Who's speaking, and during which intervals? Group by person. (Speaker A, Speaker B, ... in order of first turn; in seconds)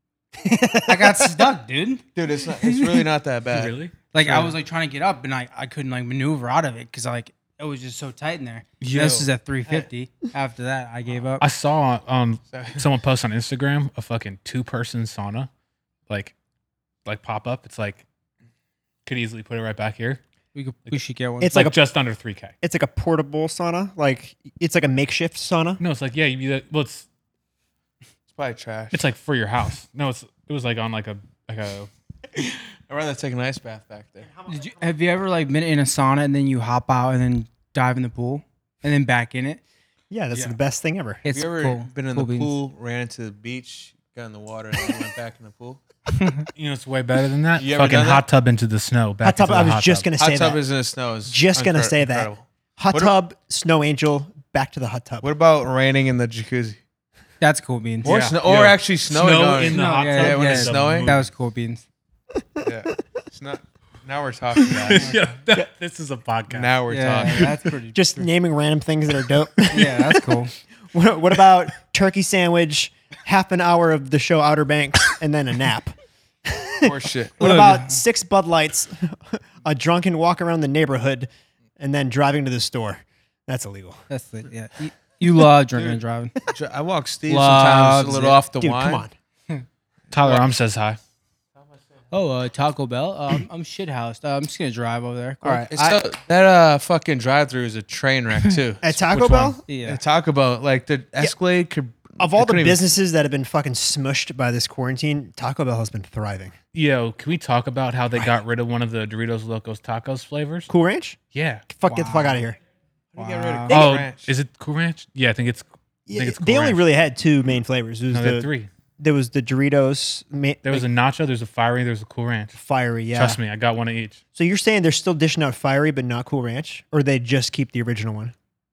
Speaker A: 0.5-1.2, 21.4-21.8, 22.6-25.8, 40.1-41.2, 49.2-50.6, 51.3-55.3, 67.9-70.2, 70.9-84.0, 88.6-89.1, 95.4-95.7, 98.8-99.6, 102.2-106.5, 110.7-111.2, 111.7-112.6, 113.7-114.0, 116.1-120.9, 122.6-123.4, 124.3-128.3
Speaker B: 0.8-2.1, 2.6-3.0, 4.1-11.4, 20.5-21.7, 34.5-39.6, 41.2-42.5, 46.1-46.5, 57.4-58.2, 59.7-61.8, 66.9-68.3, 69.7-70.5, 77.4-78.0, 84.1-86.3, 87.3-88.4, 92.1-96.0, 99.7-100.0, 111.9-112.4, 113.2-113.8
Speaker C: 2.1-4.5, 12.5-12.8, 28.3-29.0, 32.3-34.3, 41.3-45.8, 47.6-48.2, 50.2-53.1, 55.2-56.8, 58.0-61.1, 62.6-65.2, 66.5-67.6, 76.8-77.4, 85.8-89.1, 90.1-90.5, 95.7-98.8, 99.8-102.8, 113.2-114.3
Speaker D: 3.5-4.0, 8.8-9.3, 11.4-15.5, 16.1-16.4, 17.1-18.0, 19.1-20.2, 20.9-22.5, 25.8-27.1, 28.9-31.9, 46.6-50.1, 58.0-61.3, 64.7-67.5, 90.1-91.0, 99.0-99.6, 106.7-110.7, 111.3-111.7, 113.7-116.8, 118.1-118.7, 120.7-122.6, 123.1-124.2